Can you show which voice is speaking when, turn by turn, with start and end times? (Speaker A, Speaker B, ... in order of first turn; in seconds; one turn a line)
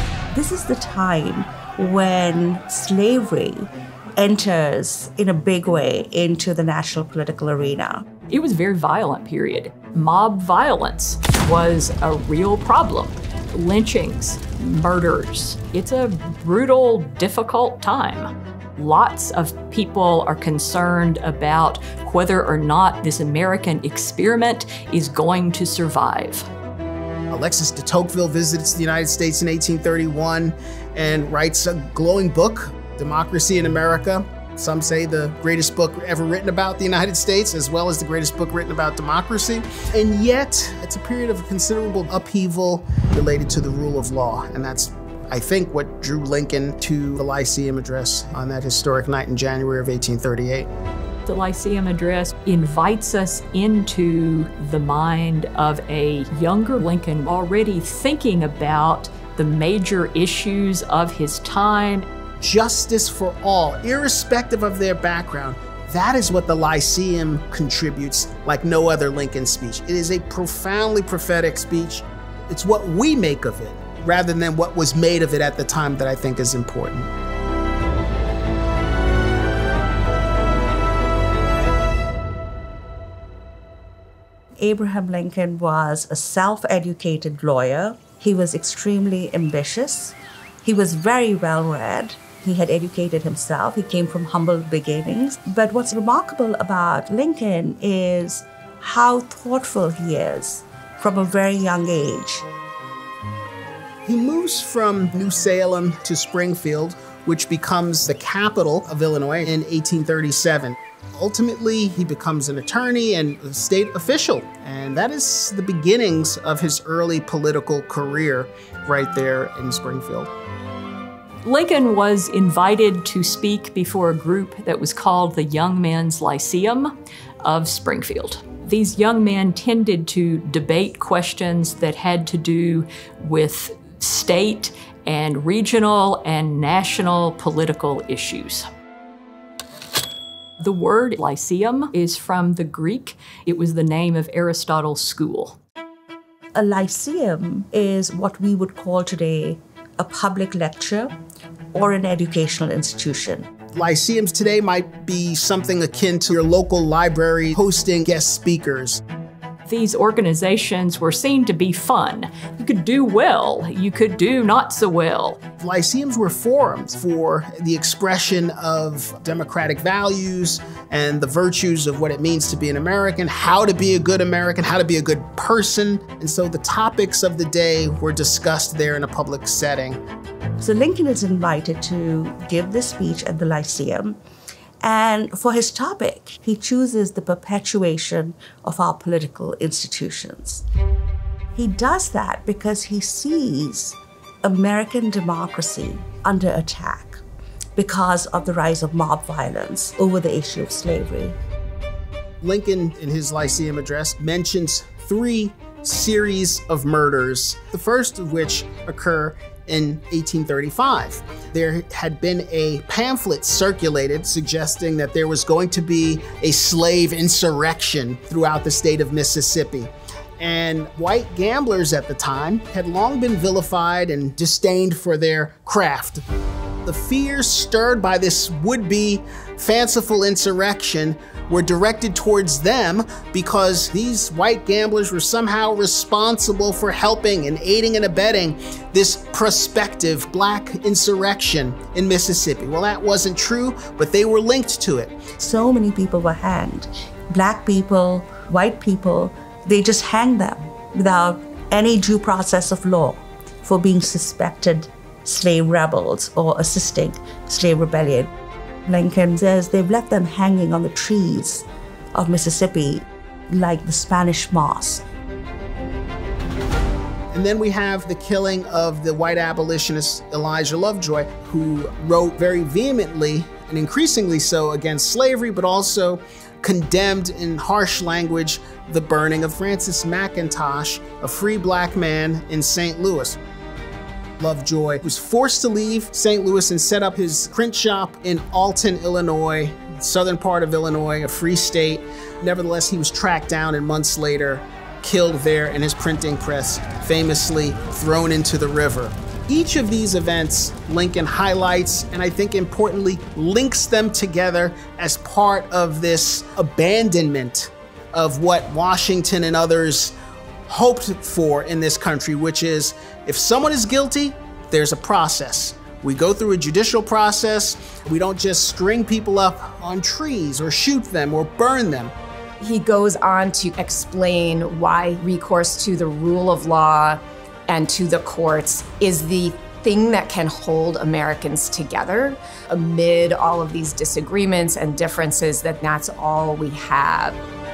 Speaker A: 0.3-8.1
Speaker B: 8.3-26.5
Speaker C: 27.3-50.7
Speaker B: 51.3-62.1
Speaker C: 62.4-77.1
Speaker A: 84.6-102.5
Speaker C: 104.0-120.3
Speaker B: 121.5-138.7
Speaker B: 140.6-145.6
Speaker A: 146.6-151.1
Speaker A: 151.7-153.5
Speaker C: 153.7-159.0
Speaker B: 159.7-165.4
Speaker C: 165.6-180.0
Speaker A: 180.6-184.2
Speaker A: 184.8-190.6
Speaker A: 191.5-197.2
Speaker A: 197.8-201.4
Speaker C: 202.4-226.2
Speaker C: 226.8-245.2
Speaker A: 245.4-258.3
Speaker A: 258.9-265.1
Speaker C: 267.3-283.4
Speaker C: 284.4-310.1
Speaker C: 310.7-322.1
Speaker D: 322.6-337.4